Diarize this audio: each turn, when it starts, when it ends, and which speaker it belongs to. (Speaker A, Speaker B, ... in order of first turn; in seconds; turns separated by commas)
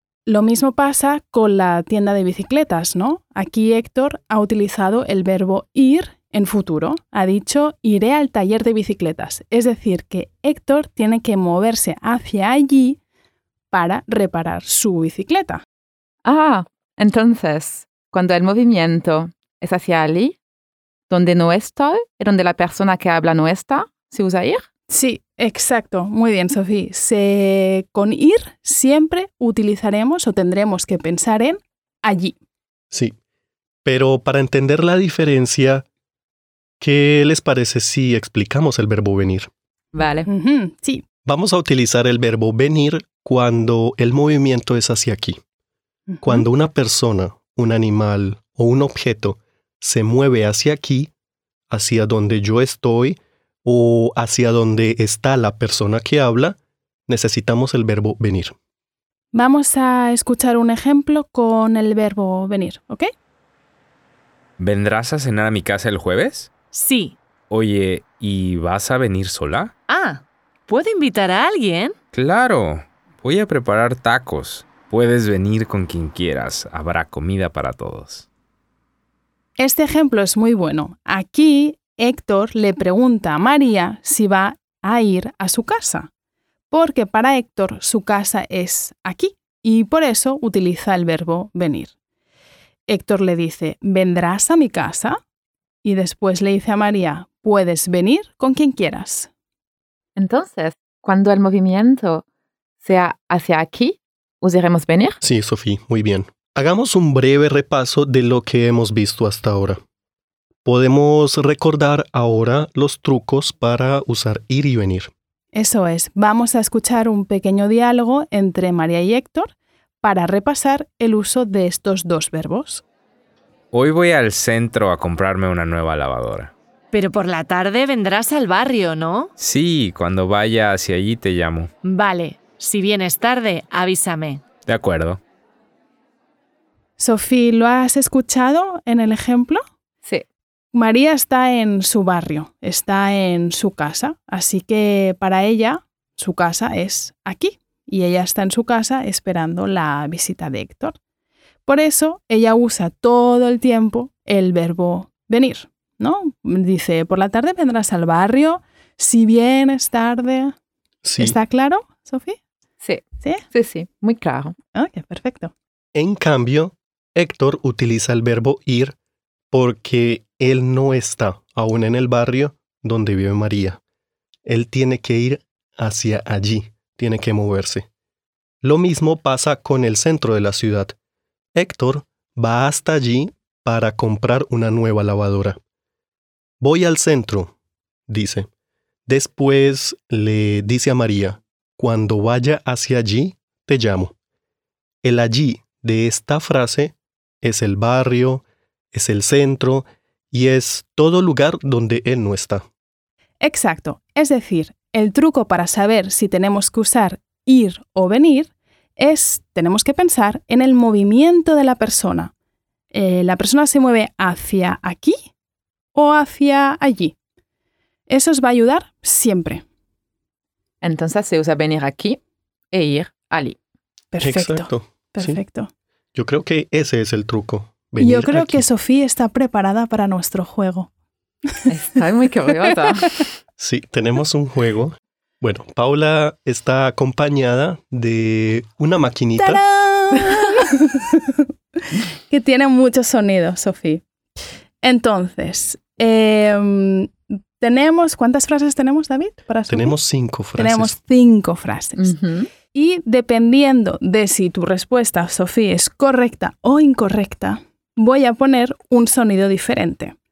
Speaker A: 0.3-13.0, Speaker A: 13.7-15.6, Speaker B: 16.2-20.4, Speaker B: 21.1-24.6, Speaker A: 24.9-32.4, Speaker C: 32.9-33.1, Speaker C: 33.8-35.9, Speaker C: 36.8-39.5, Speaker B: 39.9-40.3, Speaker A: 40.3-41.0, Speaker C: 41.2-45.4, Speaker A: 46.1-46.4, Speaker C: 46.2-51.1, Speaker C: 51.7-56.6, Speaker C: 57.1-58.5, Speaker A: 59.3-63.1, Speaker D: 64.6-66.5, Speaker E: 66.7-67.2, Speaker D: 67.5-69.7, Speaker E: 69.9-72.0, Speaker D: 72.1-78.2, Speaker A: 79.6-86.1, Speaker A: 86.7-91.9, Speaker A: 92.9-95.2, Speaker A: 95.8-99.3, Speaker B: 100.2-102.2, Speaker B: 102.8-105.2, Speaker C: 105.2-109.8, Speaker C: 110.6-115.1, Speaker A: 115.5-122.8, Speaker D: 123.7-126.5, Speaker E: 126.9-129.3, Speaker D: 129.4-131.7, Speaker E: 131.8-134.4, Speaker D: 134.7-135.2, Speaker A: 137.0-139.6, Speaker A: 140.7-151.0, Speaker A: 151.7-160.5, Speaker C: 161.0-161.4, Speaker A: 161.2-162.4, Speaker B: 162.8-164.5, Speaker A: 164.7-165.5, Speaker C: 165.9-168.9, Speaker C: 169.5-173.8, Speaker C: 174.4-177.9, Speaker C: 178.6-180.9, Speaker C: 181.5-185.6, Speaker C: 186.6-187.5, Speaker C: 188.1-188.5, Speaker C: 189.1-194.1, Speaker C: 195.0-202.6, Speaker A: 203.4-212.3, Speaker A: 212.9-215.2, Speaker A: 215.9-217.1, Speaker A: 218.1-219.6, Speaker B: 220.8-223.6, Speaker A: 224.1-225.7, Speaker C: 224.2-225.4, Speaker C: 226.1-228.6, Speaker A: 228.0-230.9, Speaker B: 231.7-233.1, Speaker C: 233.6-239.6, Speaker A: 239.4-241.4, Speaker A: 242.3-244.0, Speaker A: 244.8-250.0, Speaker C: 249.7-250.9, Speaker A: 250.6-252.2, Speaker B: 252.0-252.5, Speaker A: 252.7-260.1